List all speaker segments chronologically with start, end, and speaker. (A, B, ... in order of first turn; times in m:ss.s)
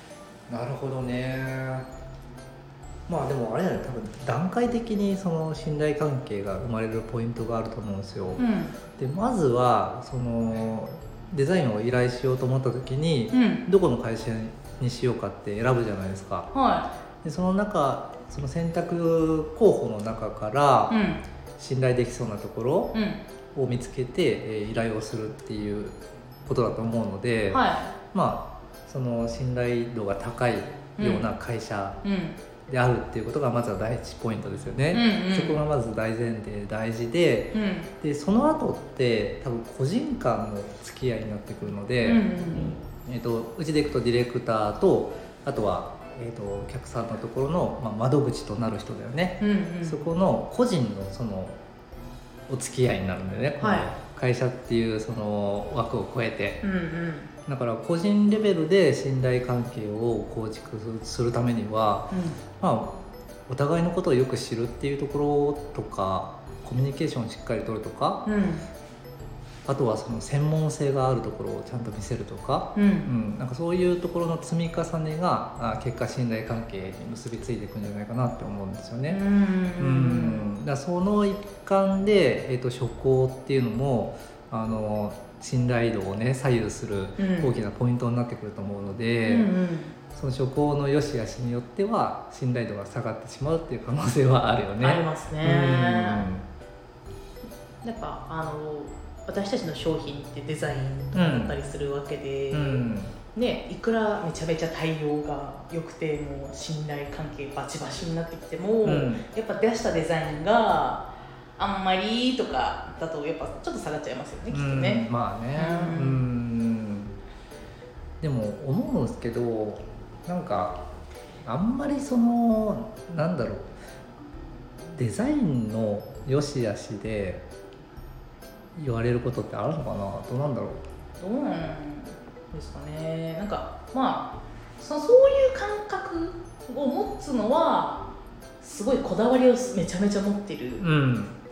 0:00.5-0:01.9 A
0:03.1-0:08.4 A
0:08.4-0:08.7 B
0:09.0-0:16.5 A
0:13.3-0:13.6 B
0:16.5-0:16.9 B
0:17.2-0:20.9 A
0:20.9-0:21.2 B
0:21.6-0:22.9 A
0:22.9-0:23.2 B
0:23.5-0:32.0 A
0:27.5-0:27.9 B
0:31.0-0:31.3 B
0:32.0-0:32.4 B
0:32.7-0:42.2 A
0:34.9-0:35.6 B
0:37.5-0:37.9 B
0:42.0-0:42.8 B
0:42.9-0:51.6 A
0:49.4-0:50.1 B
0:52.5-0:56.6 A
0:53.6-0:53.9 B
0:56.6-0:57.3 B
0:57.5-1:08.2 A
1:02.1-1:02.4 B
1:08.2-1:08.7 B
1:09.7-1:19.2 A
1:12.8-1:13.1 B
1:19.1-1:20.5 B
1:19.8-1:29.5 A
1:27.2-1:27.5 B
1:29.2-1:29.9 B
1:30.1-1:36.4 A
1:34.8-1:36.3 B
1:37.8-1:42.8 B
1:41.1-1:41.5 A
1:42.5-1:43.1 A
1:43.3-1:56.2 B
1:48.8-1:49.2 A
1:54.5-1:57.2 A
1:58.2-2:00.8 A
2:01.4-2:03.7 A
2:04.9-2:07.4 A
2:08.7-2:10.8 A
2:11.2-2:18.1 B
2:18.6-2:20.8 B
2:20.8-2:21.4 A